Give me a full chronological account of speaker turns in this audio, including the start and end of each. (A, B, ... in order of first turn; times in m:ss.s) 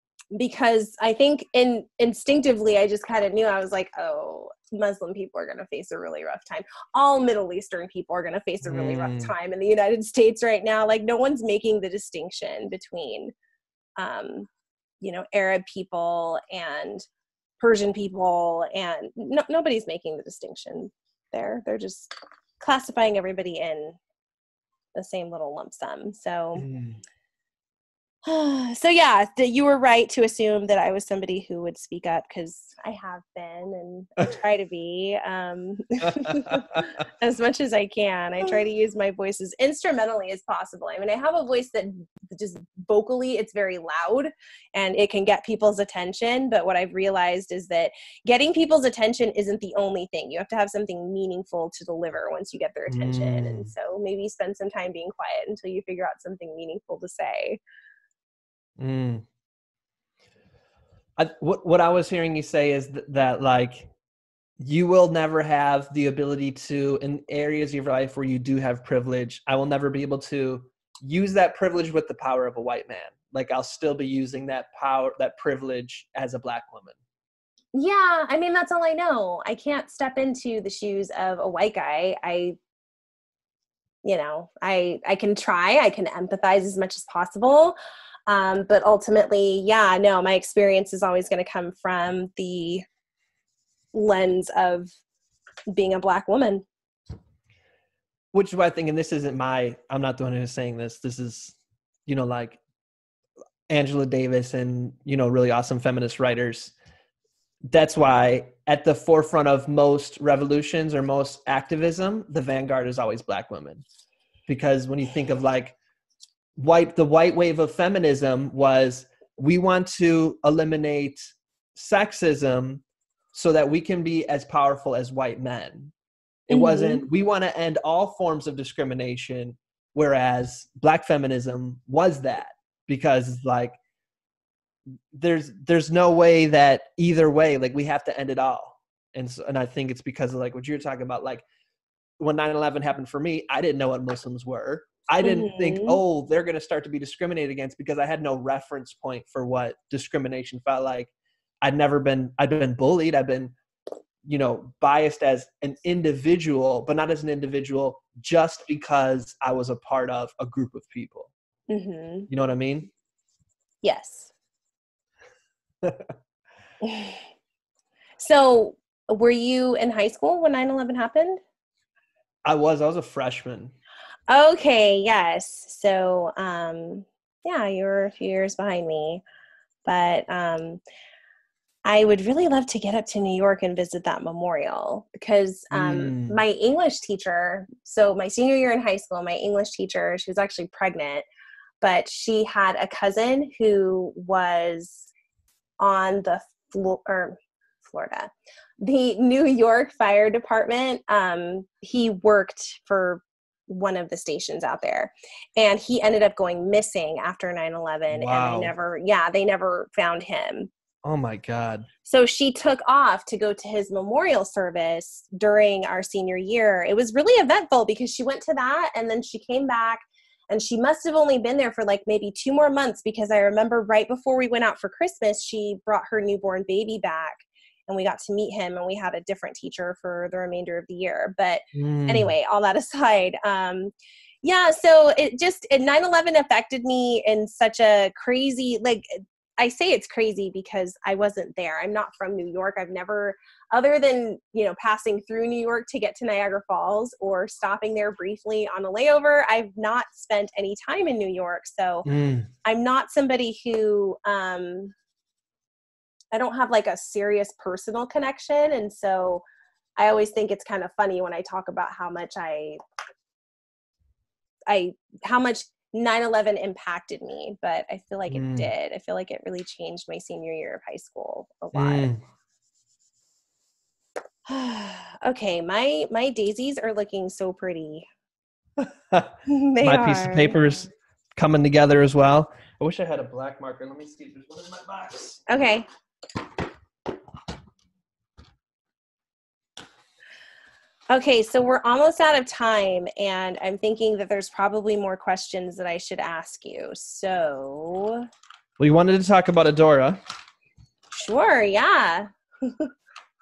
0:00.3-0:13.3 A
0:08.6-0:09.3 B
0:14.0-0:14.5 A
0:15.0-0:17.0 A
0:17.6-0:24.0 A
0:24.9-0:26.7 A
0:26.6-0:27.0 B
0:28.2-0:57.6 A
0:36.1-0:36.8 B
0:52.9-0:53.7 B
0:58.8-0:59.2 B
1:01.2-1:03.9 B
1:04.6-1:17.0 B
1:17.7-1:22.6 A
1:24.0-1:27.8 A
1:28.3-1:32.8 A
1:33.9-1:34.9 A
1:35.7-1:36.6 A
1:38.3-1:41.6 B
1:42.1-1:42.6 B
1:43.7-1:46.7 B
1:47.7-1:53.8 B
1:54.5-1:55.8 B
1:56.6-2:05.9 B
2:06.5-2:13.8 B
2:06.5-2:07.0 A
2:15.1-2:21.4 B
2:22.2-2:31.1 B
2:25.2-2:26.0 A
2:31.6-2:33.6 B
2:34.2-2:41.3 B
2:41.7-2:42.3 A
2:42.3-2:42.9 B
2:43.8-2:44.3 A
2:45.8-2:46.1 B
2:46.8-2:47.2 A
2:48.2-2:51.4 A
2:52.4-2:53.7 B
2:54.3-2:59.2 A
2:59.8-3:00.8 A
3:01.8-3:11.2 A
3:05.7-3:06.4 B
3:11.8-3:15.1 A
3:15.8-3:18.3 A
3:18.8-3:30.7 A
3:28.1-3:28.7 B
3:31.0-3:31.9 B
3:32.0-4:12.1 A
3:51.7-3:52.3 B
4:12.0-4:12.5 B
4:12.6-4:14.9 A
4:16.3-4:19.4 A
4:20.0-4:22.8 A
4:24.7-4:32.1 A
4:28.3-4:28.7 B
4:31.7-4:32.2 B
4:34.5-4:38.1 A
4:38.8-4:45.4 B
4:39.4-4:40.6 A
4:45.5-4:45.8 A
4:51.1-4:58.3 A
4:58.8-5:00.2 B
5:01.1-5:02.9 A